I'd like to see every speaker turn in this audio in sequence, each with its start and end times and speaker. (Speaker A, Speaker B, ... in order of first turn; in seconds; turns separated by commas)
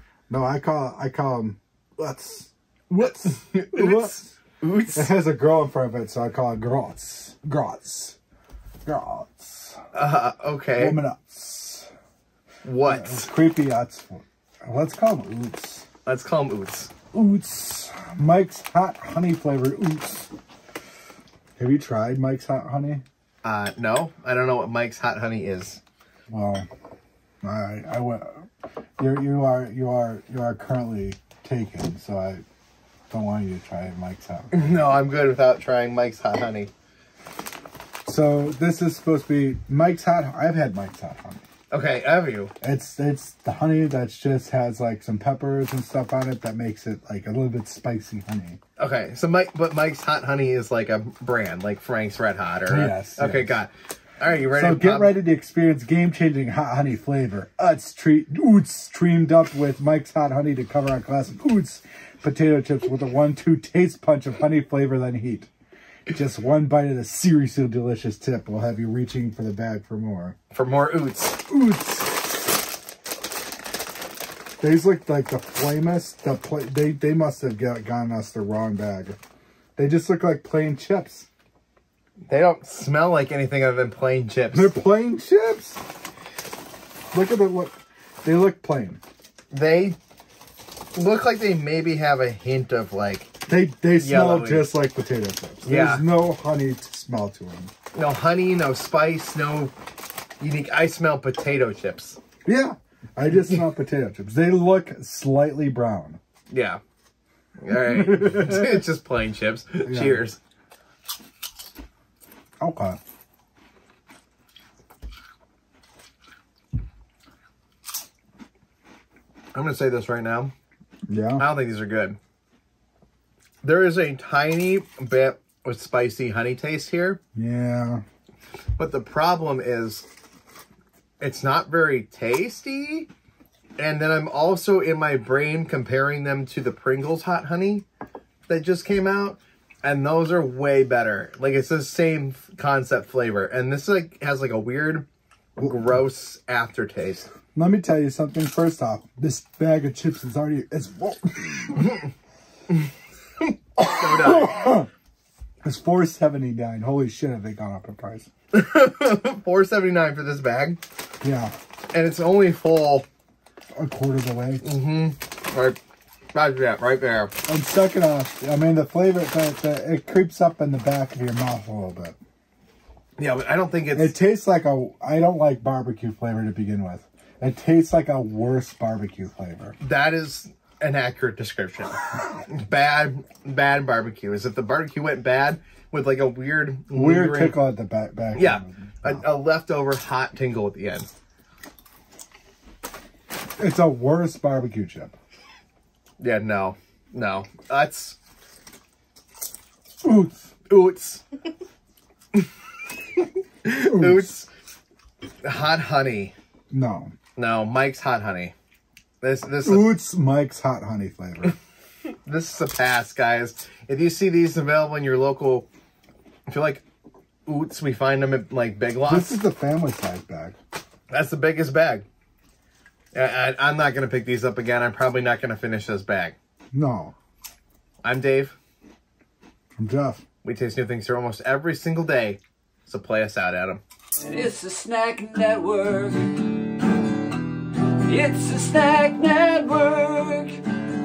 Speaker A: 0.3-4.3, Speaker B: 3.0-5.1, Speaker A: 4.9-8.2, Speaker A: 8.8-9.8, Speaker B: 9.9-11.0, Speaker A: 10.8-11.9, Speaker B: 12.6-13.3, Speaker A: 12.8-15.8, Speaker B: 16.0-16.9, Speaker A: 17.1-20.3, Speaker A: 21.6-23.0, Speaker B: 23.4-25.8, Speaker A: 26.3-26.7, Speaker A: 27.4-28.4, Speaker A: 29.0-32.4, Speaker A: 33.1-34.8, Speaker B: 34.5-36.7, Speaker A: 38.1-41.4, Speaker B: 41.7-42.5, Speaker A: 42.6-48.6, Speaker B: 48.8-55.2, Speaker A: 52.7-53.6, Speaker A: 54.5-65.5, Speaker A: 66.1-70.3, Speaker B: 70.5-71.4, Speaker A: 71.5-72.3, Speaker A: 74.6-79.2, Speaker A: 79.8-81.3, Speaker B: 82.3-84.7, Speaker A: 84.5-85.8, Speaker A: 87.1-89.0, Speaker B: 89.5-90.0, Speaker B: 90.9-93.3, Speaker A: 93.5-97.7, Speaker B: 94.0-94.7, Speaker B: 95.6-96.0, Speaker B: 97.9-99.7, Speaker B: 100.4-102.2, Speaker A: 102.4-106.2, Speaker B: 106.5-106.8, Speaker B: 107.6-110.4, Speaker A: 107.9-108.7, Speaker A: 109.8-110.2, Speaker A: 112.6-113.0, Speaker B: 119.5-120.5, Speaker A: 121.1-121.5, Speaker B: 121.4-122.2, Speaker B: 123.6-127.2, Speaker A: 127.3-128.0, Speaker B: 128.8-130.1, Speaker B: 131.2-133.1, Speaker B: 133.8-137.8, Speaker B: 138.5-147.3, Speaker A: 147.5-151.9, Speaker B: 153.8-154.7, Speaker A: 153.8-154.9, Speaker A: 155.6-158.3, Speaker B: 158.5-160.8, Speaker A: 161.2-161.5, Speaker B: 161.9-163.1, Speaker A: 163.7-164.6, Speaker B: 164.6-165.8, Speaker B: 166.3-167.3, Speaker A: 167.5-172.2, Speaker B: 173.2-174.1, Speaker A: 173.9-179.8, Speaker B: 179.8-187.6, Speaker A: 186.9-189.2, Speaker B: 188.3-191.1, Speaker A: 193.6-195.2, Speaker B: 196.2-198.2, Speaker A: 200.0-200.5, Speaker B: 200.7-201.2, Speaker B: 203.2-204.5, Speaker A: 203.9-204.3, Speaker B: 205.4-206.3, Speaker A: 206.7-207.1, Speaker B: 207.3-208.5, Speaker B: 209.2-209.9, Speaker A: 209.6-211.5, Speaker B: 212.2-215.7, Speaker B: 216.5-216.8, Speaker B: 217.4-219.4, Speaker A: 219.1-220.6, Speaker B: 221.1-222.0, Speaker B: 223.1-226.3, Speaker A: 226.7-227.1, Speaker B: 228.0-228.6, Speaker A: 229.8-230.2, Speaker B: 230.4-233.8, Speaker C: 234.2-236.9, Speaker C: 238.0-240.6